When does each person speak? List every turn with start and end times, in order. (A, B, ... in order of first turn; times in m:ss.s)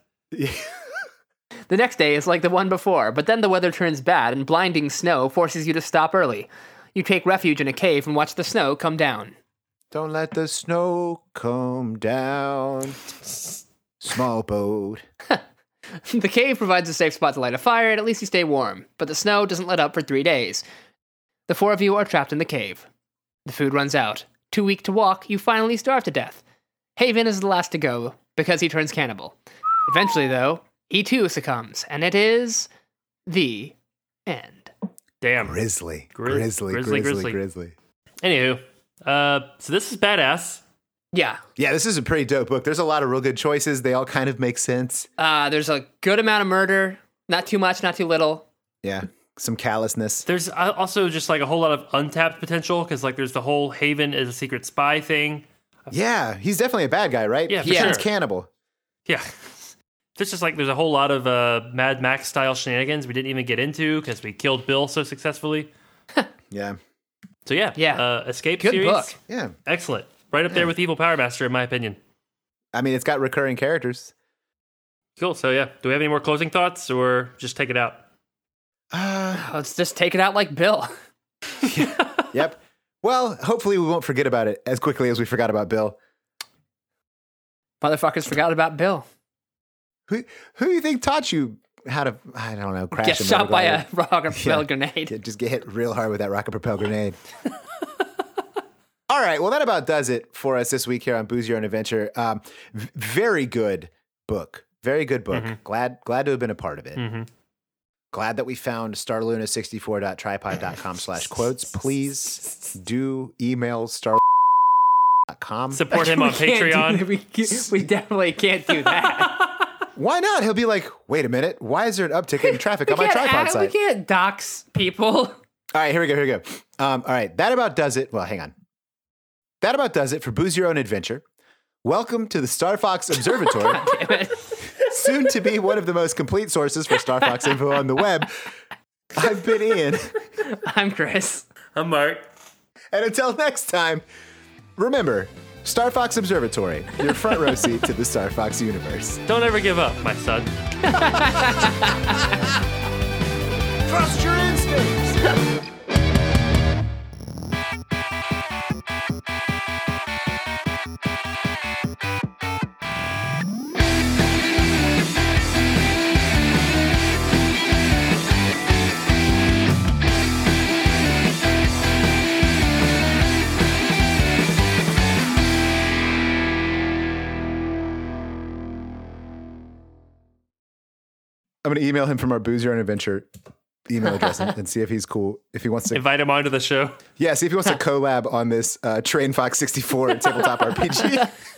0:00.3-0:00.7 A
0:01.7-0:09.3 B
0:09.9-0:13.0 A
0:14.0-0:15.0 A
0:16.0-0:20.6 B
0:21.5-0:22.8 B
0:23.4-0:26.4 B
0:27.0-0:29.3 B
0:29.9-0:32.7 B
0:33.3-0:33.7 B
0:34.2-0:34.7 B
0:35.2-0:35.6 C
0:35.4-0:37.7 A
0:36.2-0:37.4 C
0:38.2-0:40.6 C
0:41.1-0:41.4 B
0:41.6-0:45.1 A
0:45.2-0:48.4 B
0:48.8-0:50.2 A
0:50.3-0:55.4 C
0:55.9-0:58.5 A
0:57.5-0:58.1 C
0:57.6-0:58.0 B
0:59.1-1:05.7 C
1:06.5-1:06.8 A
1:07.4-1:12.0 C
1:07.8-1:08.0 B
1:08.6-1:09.2 B
1:09.3-1:09.5 A
1:12.7-1:14.1 A
1:15.2-1:18.0 C
1:18.9-1:19.5 A
1:19.3-1:20.9 B
1:21.6-1:26.0 A
1:27.8-1:29.0 B
1:30.1-1:37.2 A
1:32.9-1:35.1 B
1:39.1-1:47.0 A
1:45.3-1:45.6 C
1:47.0-1:47.3 C
1:48.1-1:54.2 A
1:55.3-1:55.9 A
1:55.7-1:57.1 C
1:55.9-1:59.5 B
2:00.0-2:03.7 A
2:02.4-2:05.4 B
2:05.7-2:08.5 A
2:09.6-2:11.2 A
2:11.8-2:14.0 A
2:13.4-2:15.1 B
2:14.8-2:18.4 A
2:19.1-2:20.1 A
2:20.4-2:21.5 B
2:21.7-2:22.2 C
2:22.9-2:24.0 A
2:24.8-2:29.2 A
2:29.3-2:30.5 C
2:30.8-2:32.2 B
2:30.9-2:32.6 A
2:33.8-2:35.4 A
3:01.6-3:03.3 A
3:03.9-3:06.0 A
3:05.9-3:07.0 C
3:07.2-3:11.4 A